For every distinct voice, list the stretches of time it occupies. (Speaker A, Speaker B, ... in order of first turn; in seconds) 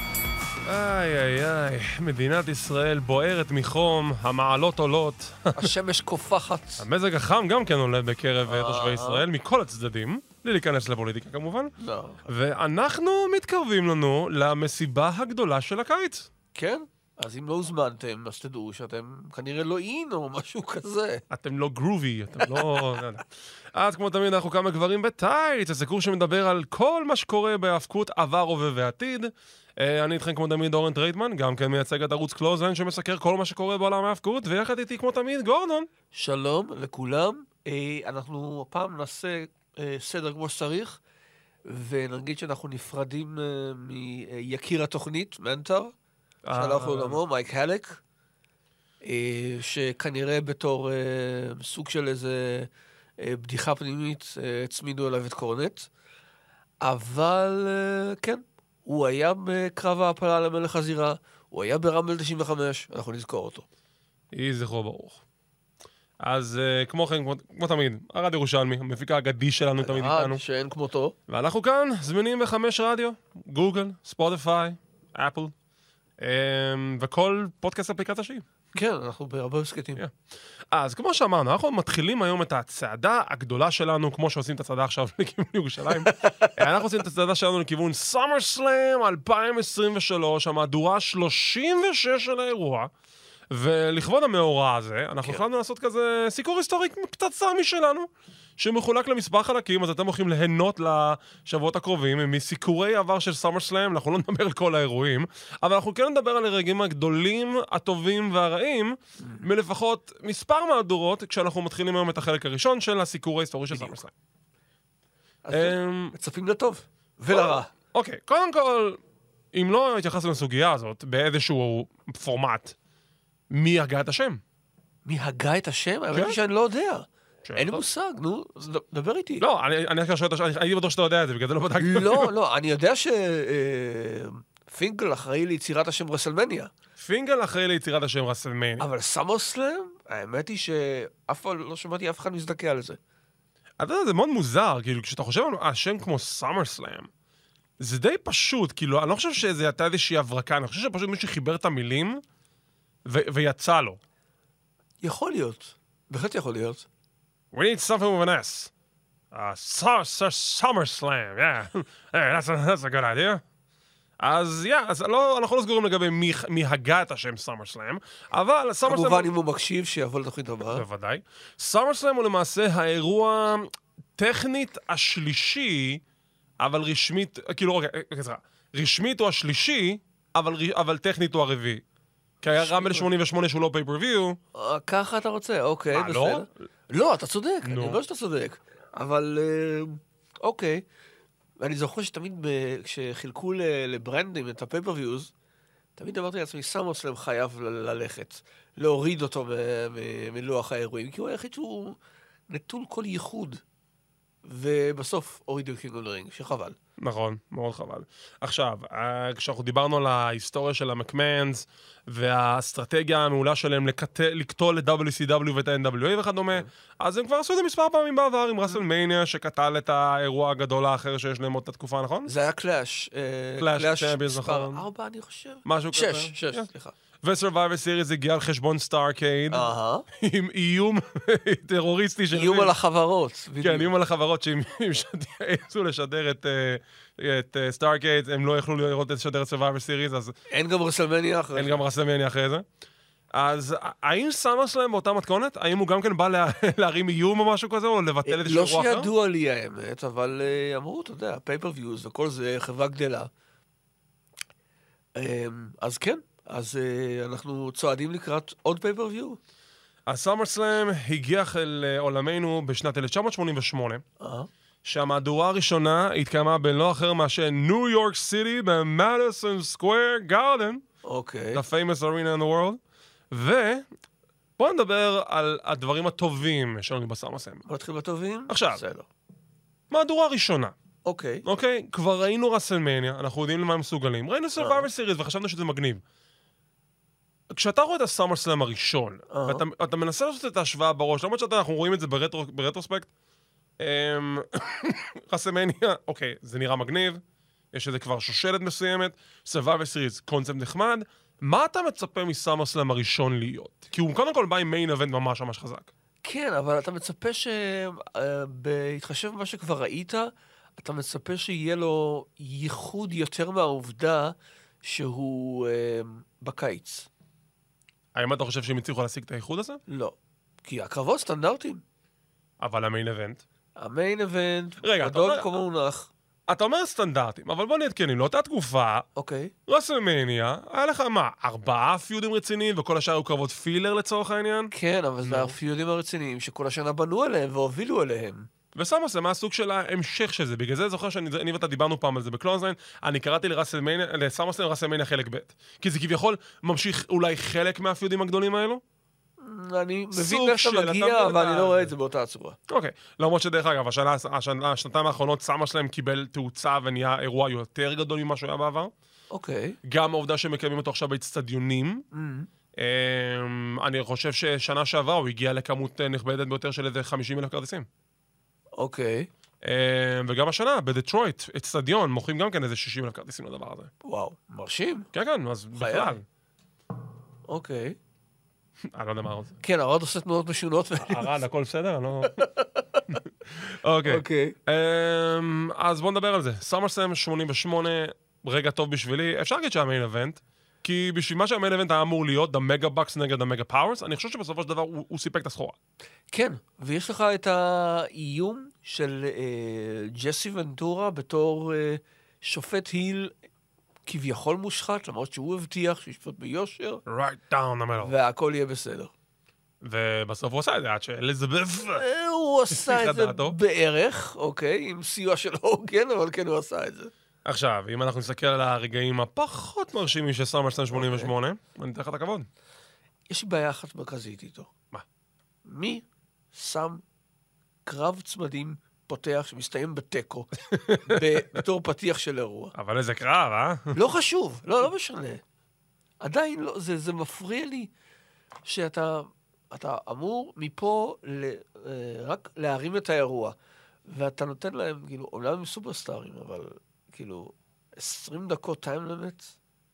Speaker A: 0.7-5.7, 6.8-11.7, 12.3-16.3, 21.3-35.9, 46.5-47.2, 64.3-65.2, 66.2-70.4, 71.3-75.5, 76.2-78.5, 80.7-92.9, 93.5-114.1, 115.5-116.2, 117.3-119.0, 119.5-122.8, 123.5-124.4, 126.1-126.4, 127.5-127.8, 129.4-132.3, 137.0-138.9, 143.8-147.1, 147.8-152.2, 153.1-154.0, 157.5-158.7, 159.3-163.4, 164.2-169.3, 170.7-176.0, 176.6-181.8, 182.4-184.4, 185.9-186.5, 187.7-188.0, 207.0-222.3, 223.6-224.8, 225.7-226.7, 227.2-232.7, 233.6-240.3, 241.6-242.7, 243.3-249.1, 260.1-264.0, 264.8-270.8, 271.5-272.8, 273.3-273.9, 274.6-277.7, 278.5-278.8, 279.9-280.7, 281.4-286.0, 287.5-293.1, 293.8-297.2, 297.7-305.9, 318.1-319.8, 322.6-323.4, 324.8-325.5, 326.5-329.1, 329.7-334.7, 335.2-335.6, 338.8-348.8, 350.1-351.9, 352.7-358.9, 359.8-362.1, 362.8-367.9, 369.6-373.9, 375.1-376.2, 378.9-379.6, 381.0-382.4, 383.1-395.8, 407.1-408.1, 409.8-412.1, 412.7-413.6, 417.4-422.5, 430.7-431.4, 432.8-434.0
Speaker B: 5.6-6.9, 8.5-9.2, 11.8-12.3, 16.5-21.2, 36.1-41.0, 41.6-45.9, 46.5-48.0, 49.0-55.9, 56.8-63.7, 69.8-71.2, 78.8-80.0, 86.0-86.6, 115.4-117.7, 125.0-129.4, 131.8-136.7, 138.8-143.0, 155.0-156.9, 168.8-170.8, 182.6-183.1, 184.5-190.8, 191.6-195.3, 196.0-202.0, 202.5-203.6, 204.4-206.8, 222.3-226.9, 229.5-230.1, 232.3-233.9, 240.5-241.8, 248.3-253.3, 255.2-259.4, 264.2-264.5, 271.0-271.6, 277.7-279.1, 281.1-281.5, 284.6-284.9, 289.3-289.6, 306.2-317.1, 319.9-321.8, 323.8-326.1, 329.2-329.5, 334.7-338.5, 349.4-352.6, 359.3-359.8, 362.1-362.5, 368.8-369.3, 374.0-375.1, 375.8-376.2, 377.5-378.0, 379.6-381.4, 382.3-383.0, 384.1-384.6, 396.3-403.3, 404.1-407.0, 408.0-409.1, 412.0-417.1, 420.9-421.3, 423.3-424.7, 425.6-427.0, 427.9-432.7, 433.9-435.4, 436.2-437.9, 438.6-443.6, 444.1-449.6